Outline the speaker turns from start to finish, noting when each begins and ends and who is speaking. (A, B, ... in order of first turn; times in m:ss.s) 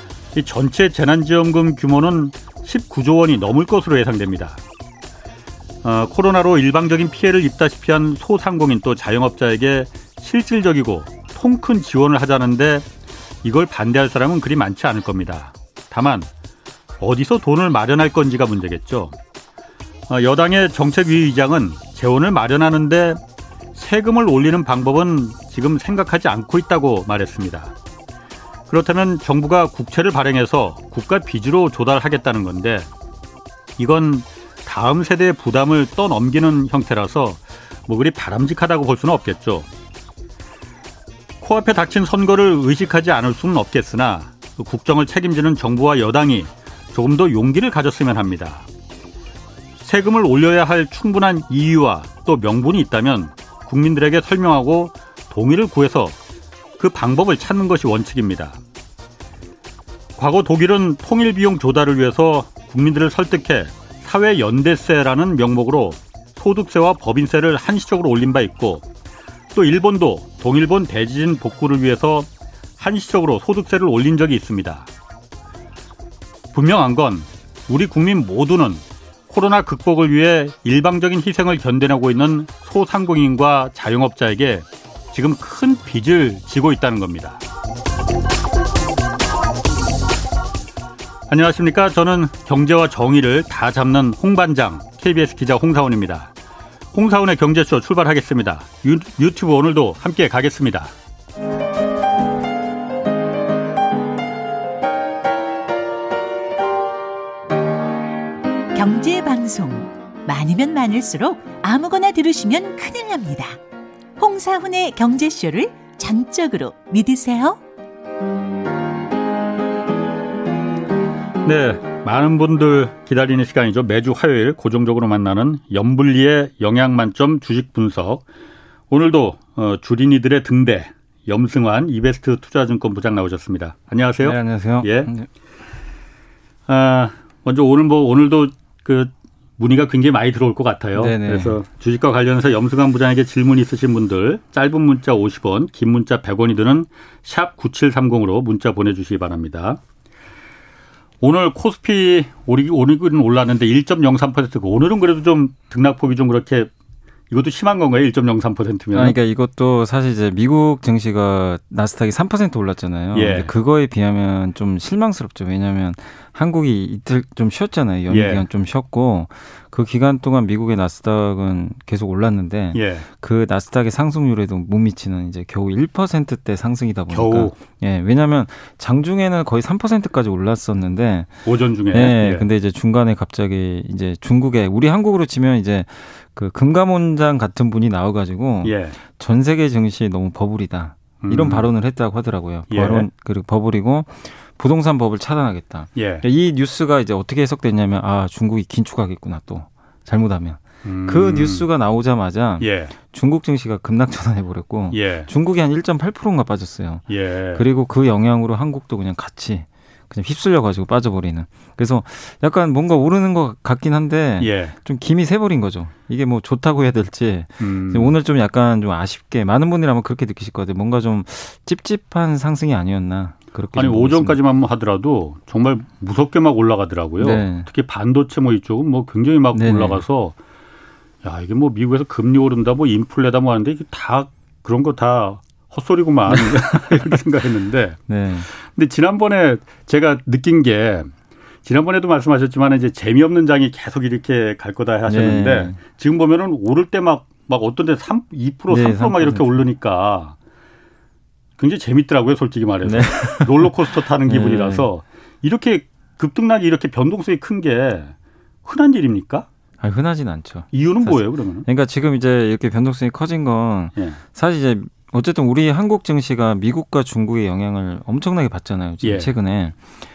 0:00.3-0:04.6 A
0:05.8-0:12.9 A
0:13.4-0:16.3 A
0:17.0-0:19.2 A
0:20.1-0:23.2 A
0:23.7-0:27.7 A
0:28.7-0:32.9 A
0:33.8-0:39.7 A
0:41.4-0:48.7 A
0:49.8-0:56.2 A
0:56.8-0:58.6 A
1:00.2-1:08.8 A
1:09.5-1:14.9 A
1:16.5-1:27.4 A
1:31.3-1:36.3 A
1:36.9-1:40.9 A
1:48.7-1:53.6 B
1:54.2-1:57.6 B
2:01.4-2:08.2 A
2:08.9-2:15.1 A
2:14.2-2:15.3 C
2:16.7-2:29.8 A
2:20.9-2:21.6 C
2:31.2-2:36.7 A
2:37.3-2:39.2 A
2:38.9-3:01.4 C
2:43.1-2:43.5 A
2:48.1-2:48.5 A
2:52.7-2:53.1 A
2:57.1-2:57.6 A
3:01.4-3:02.5 A
3:01.9-3:44.4 C
3:08.6-3:09.0 A
3:11.2-3:11.6 A
3:12.7-3:13.0 A
3:16.0-3:16.2 A
3:20.8-3:21.7 A
3:22.6-3:22.9 A
3:24.9-3:25.3 A
3:27.1-3:27.6 A
3:34.4-3:34.7 A
3:37.6-3:38.1 A
3:43.7-3:50.4 A
3:47.2-3:47.7 C
3:49.5-3:50.0 C
3:51.2-4:01.1 A
3:56.3-3:57.2 C
3:58.1-3:58.5 C
4:01.6-4:10.4 A
4:05.1-4:05.8 C
4:08.7-4:09.6 C
4:11.6-4:19.5 A
4:12.8-4:14.9 C
4:19.8-4:29.8 C
4:20.7-4:21.6 A
4:29.0-4:29.3 A